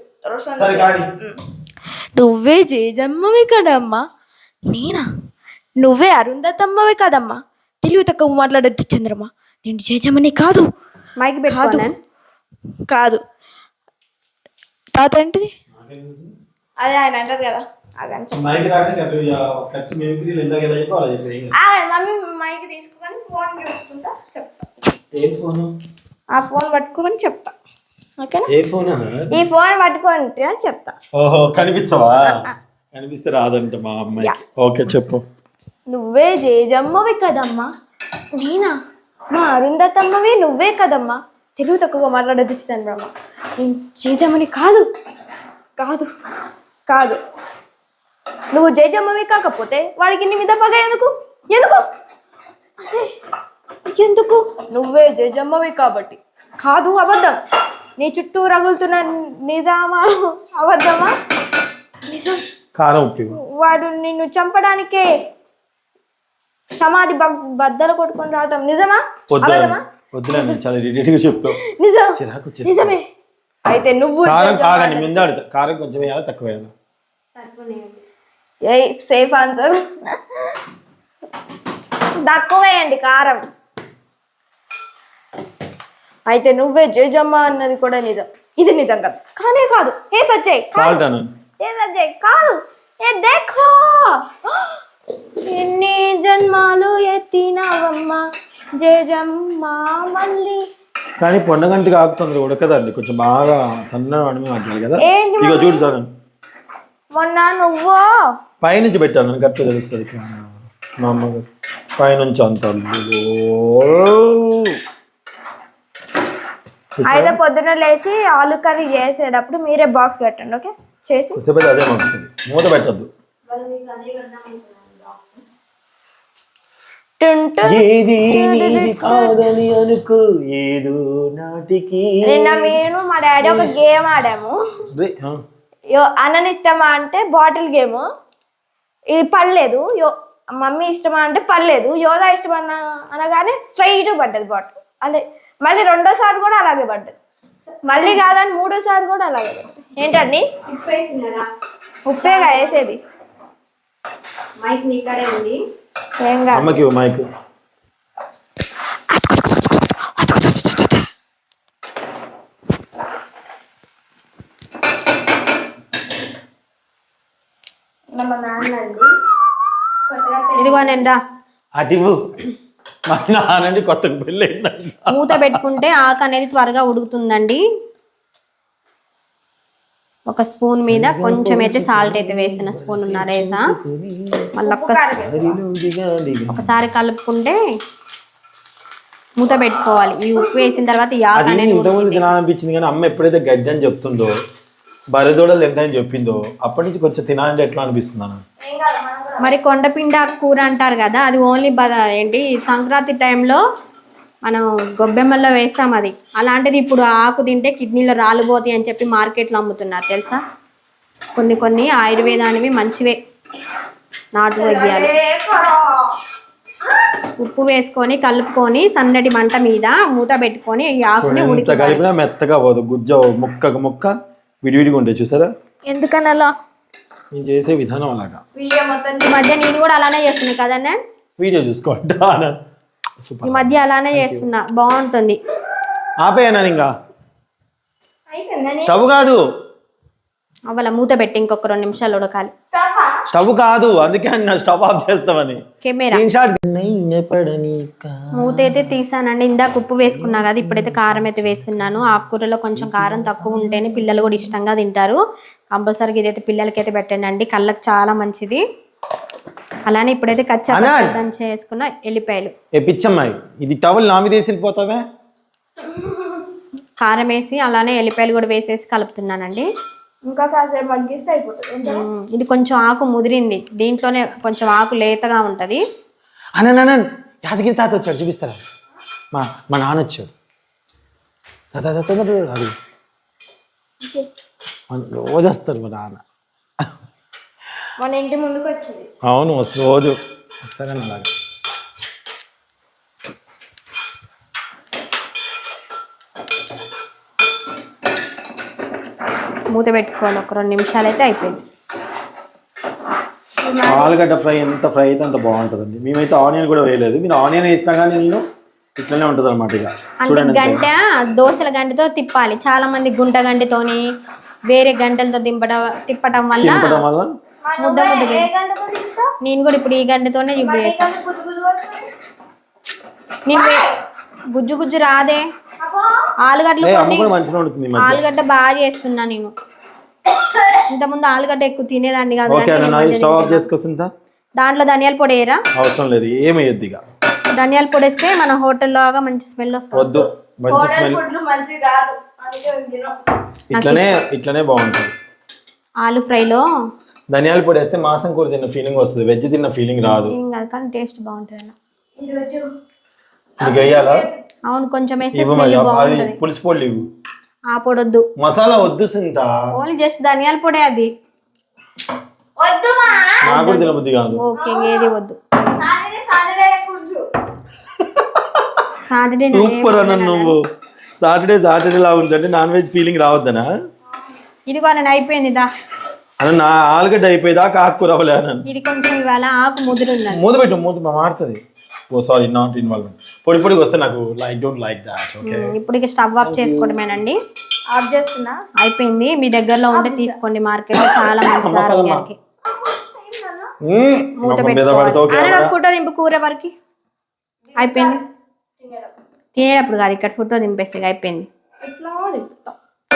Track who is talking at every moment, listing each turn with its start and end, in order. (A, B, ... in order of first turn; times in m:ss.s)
0:00.2-0:01.4 A
0:00.6-0:01.1 B
0:02.1-0:04.0 A
0:04.7-0:05.1 A
0:05.8-0:10.7 A
0:11.2-0:12.0 C
0:11.5-0:11.9 A
0:12.8-0:13.2 A
0:14.9-0:15.5 A
0:15.7-0:16.3 B
0:16.8-0:18.5 A
0:18.3-0:21.5 B
0:21.5-0:24.8 A
0:25.2-0:25.7 B
0:26.3-0:27.5 A
0:28.2-0:28.5 A
0:28.5-0:29.3 B
0:29.3-0:31.0 A
0:31.1-0:35.2 B
0:32.2-0:32.6 A
0:35.9-0:37.7 A
0:38.3-0:38.8 A
0:39.3-0:44.9 A
0:45.8-0:46.1 A
0:46.9-0:47.2 A
0:48.5-0:51.8 A
0:52.8-0:53.1 A
0:53.9-0:57.4 A
0:58.0-1:01.1 A
1:02.1-1:02.4 A
1:02.8-1:03.4 B
1:03.3-1:05.1 A
1:06.8-1:09.8 A
1:09.3-1:11.6 B
1:10.3-1:10.6 A
1:11.6-1:13.0 A
1:12.2-1:13.0 B
1:13.6-1:15.2 A
1:14.2-1:16.7 B
1:17.4-1:18.0 C
1:18.6-1:20.6 A
1:22.2-1:23.4 A
1:26.3-1:31.0 A
1:30.7-1:31.3 B
1:31.6-1:34.8 A
1:35.4-1:38.2 A
1:38.8-1:40.6 A
1:41.2-1:46.1 B
1:45.0-1:45.8 A
1:47.1-1:48.1 A
1:48.6-1:50.5 B
1:51.0-1:51.4 B
1:52.0-1:54.8 B
1:57.0-1:57.4 B
1:57.0-2:01.4 A
2:01.4-2:03.1 B
2:03.5-2:05.4 C
2:07.2-2:09.4 A
2:07.6-2:12.7 B
2:12.2-2:14.6 A
2:14.9-2:15.4 B
2:15.9-2:18.0 A
2:19.1-2:27.1 A
2:27.9-2:30.5 A
2:30.6-2:31.5 C
2:32.0-2:33.0 A
2:32.2-2:32.8 C
2:34.6-2:35.6 C
2:36.2-2:36.8 A
2:36.5-2:37.2 B
2:40.2-2:41.0 A
2:48.1-2:49.1 A
2:50.1-2:51.0 A
2:50.6-2:51.2 C
2:51.8-2:52.2 B
2:53.1-2:55.6 B
2:55.1-2:57.6 C
3:00.3-3:03.6 C
3:00.7-3:04.5 B
3:04.6-3:05.1 C
3:04.6-3:05.6 A
3:05.2-3:06.9 B
3:06.5-3:07.6 C
3:09.4-3:12.3 C
3:11.4-3:14.3 B
3:15.1-3:18.4 B
3:18.6-3:19.6 A
3:19.4-3:23.6 C
3:24.4-3:30.4 C
3:31.4-3:33.2 C
3:34.3-3:35.1 C
3:34.6-3:36.2 A
3:37.4-3:42.0 C
3:41.2-3:44.1 B
3:44.6-3:45.5 B
3:45.9-3:46.5 A
3:47.3-3:48.4 B
3:48.6-3:49.5 A
3:49.2-3:51.0 C
3:51.4-3:52.6 B
3:53.2-3:54.4 B
3:53.4-3:55.4 C
3:56.2-3:56.9 B
3:58.3-3:59.0 A
3:58.8-3:59.4 B
4:00.7-4:02.5 C
4:02.7-4:03.2 A
4:03.3-4:08.9 B
4:05.8-4:06.2 C
4:08.4-4:15.2 C
4:10.0-4:12.0 B
4:12.7-4:13.9 B
4:15.7-4:18.6 C
4:19.9-4:22.5 C
4:20.7-4:21.2 B
4:22.7-4:25.0 B
4:25.8-4:26.5 A
4:27.0-4:29.7 C
4:30.2-4:32.1 A
4:31.8-4:35.8 C
4:36.6-4:38.6 B
4:39.3-4:40.3 B
4:41.7-4:42.7 B
4:44.0-4:44.3 A
4:44.9-4:46.2 B
4:48.0-4:49.1 A
4:49.3-4:51.3 B
4:59.7-5:01.6 C
5:03.6-5:04.1 A
5:03.8-5:08.4 B
5:09.0-5:10.8 B
5:10.2-5:14.0 C
5:14.7-5:17.0 C
5:16.6-5:17.3 B
5:17.6-5:19.3 A
5:17.8-5:18.5 C
5:19.4-5:21.0 C
5:20.5-5:22.1 A
5:23.5-5:23.9 C
5:23.5-5:24.0 A
5:24.5-5:25.4 C
5:25.8-5:26.3 A
5:26.4-5:27.3 C
5:26.8-5:28.2 B
5:28.0-5:29.5 C
5:30.3-5:30.8 A
5:30.9-5:33.7 C
5:32.5-5:34.1 B
5:34.6-5:35.6 C
5:35.8-5:37.0 B
5:37.6-5:40.2 C
5:39.9-5:41.2 B
5:40.7-5:43.2 A
5:43.7-5:44.1 C
5:43.7-5:45.1 B
5:46.0-5:46.6 C
5:47.3-5:50.3 B
5:50.3-5:51.7 C
5:52.2-5:52.7 A
5:53.6-5:54.2 B
5:53.6-5:54.4 A
5:54.7-5:56.4 C
5:55.3-5:57.0 B
5:57.7-5:58.2 C
5:58.4-5:59.5 B
5:59.8-6:01.1 C
6:02.6-6:03.5 A
6:03.2-6:05.4 C
6:03.4-6:04.4 B
6:04.5-6:05.1 A
6:05.6-6:07.3 A
6:08.0-6:08.6 B
6:09.0-6:10.5 C
6:09.5-6:10.6 B
6:11.2-6:13.7 B
6:14.7-6:15.7 C
6:16.4-6:18.6 B
6:18.7-6:20.4 C
6:20.3-6:21.6 B
6:22.1-6:25.7 B
6:25.4-6:27.4 C
6:26.4-6:27.0 B
6:27.9-6:28.6 A
6:28.8-6:32.4 C
6:29.9-6:30.4 A
6:31.0-6:32.2 B
6:32.7-6:33.7 A
6:33.8-6:35.7 B
6:34.4-6:36.7 C
6:37.7-6:38.2 A
6:37.8-6:38.2 C
6:38.8-6:39.1 A
6:39.6-6:41.5 C
6:41.8-6:42.8 A